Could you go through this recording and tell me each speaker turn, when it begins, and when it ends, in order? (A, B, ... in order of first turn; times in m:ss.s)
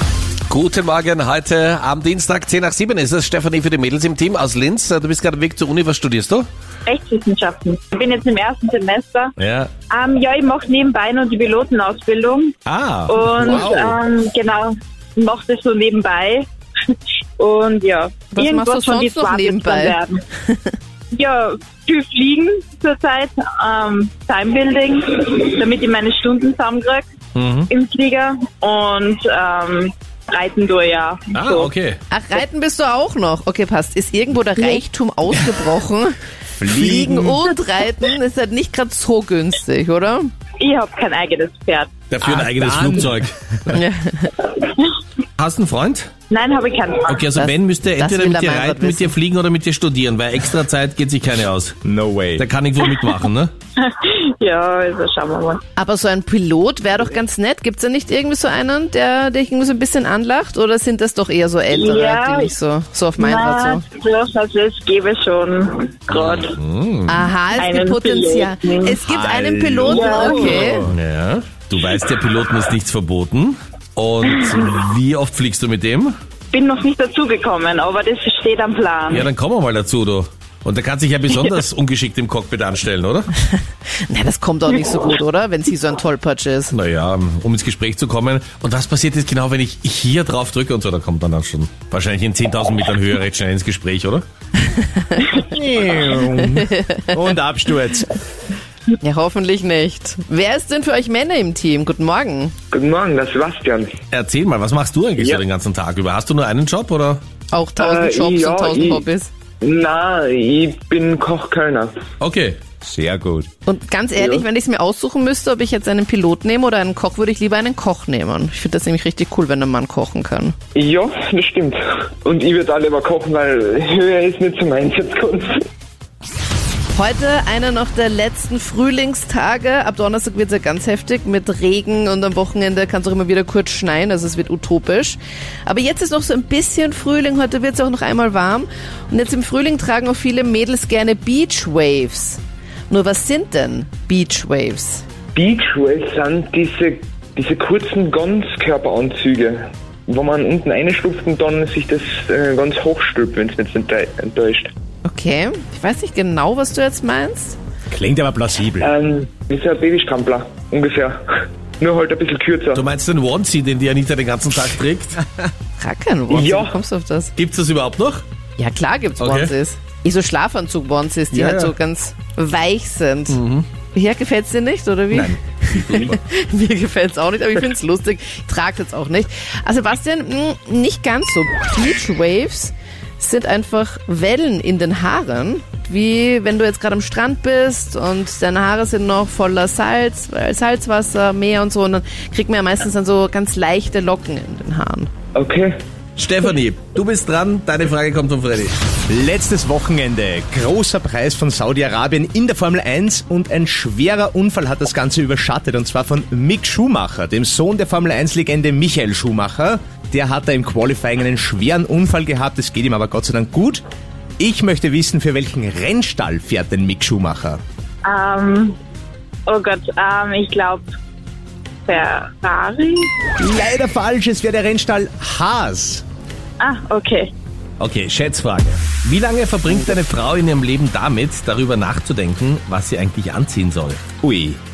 0:00.5-0:06.5 A
0:06.9-0:09.4 B
0:09.4-0:09.7 A
0:09.9-0:12.6 B
0:12.7-0:14.0 A
0:13.1-0:20.2 B
0:18.3-0:20.8 C
0:21.1-0:27.0 B
0:27.4-0:27.7 A
0:27.7-0:31.7 B
0:31.4-0:32.0 A
0:32.1-0:36.2 C
0:36.6-0:37.4 D
0:36.7-0:40.3 C
0:40.6-0:41.9 B
0:42.1-0:43.8 A
0:42.2-0:43.1 D
0:43.7-0:44.5 C
0:45.4-0:46.1 A
0:46.3-0:47.3 B
0:47.1-0:51.8 A
0:47.3-0:49.1 C
0:51.8-0:52.5 D
0:52.4-0:53.5 A
0:52.8-0:53.2 B
0:53.8-0:55.6 B
0:55.8-1:03.8 C
1:01.7-1:02.5 B
1:03.2-1:06.6 B
1:06.1-1:07.3 A
1:07.1-1:10.9 C
1:07.5-1:09.0 B
1:09.0-1:11.0 D
1:10.0-1:10.7 B
1:10.9-1:16.1 A
1:14.2-1:14.7 B
1:16.5-1:19.3 B
1:19.1-1:23.3 A
1:23.5-1:26.7 C
1:26.7-1:34.2 A
1:34.6-1:35.4 C
1:35.4-1:38.1 D
1:36.4-1:37.1 C
1:39.0-1:42.5 C
1:42.7-1:43.9 E
1:44.1-1:47.2 A
1:47.5-1:49.3 C
1:47.8-1:49.0 E
1:49.6-1:51.9 E
1:52.2-1:52.6 A
1:52.8-1:53.5 D
1:53.7-2:00.6 C
1:54.2-1:54.4 E
2:00.8-2:05.6 E
2:06.9-2:25.0 C
2:25.4-2:34.7 E
2:35.0-2:37.6 C
2:37.9-2:38.9 D
2:38.8-2:42.8 E
2:42.7-2:45.2 A
2:45.8-2:47.3 C
2:46.3-2:46.7 E
2:47.4-2:48.2 A
2:48.6-2:53.4 C
2:49.2-2:49.5 A
2:51.3-2:51.8 A
2:53.3-2:53.7 A
2:53.9-3:15.1 C
2:55.1-2:56.2 A
3:15.4-3:15.8 E
3:16.2-3:18.8 A
3:19.1-3:33.8 D
3:34.4-3:37.6 D
3:38.0-3:38.8 B
3:39.5-3:40.9 B
3:41.9-3:43.1 B
3:43.4-3:46.0 D
3:46.6-3:47.3 B
3:47.8-3:54.0 A
3:54.2-3:54.6 D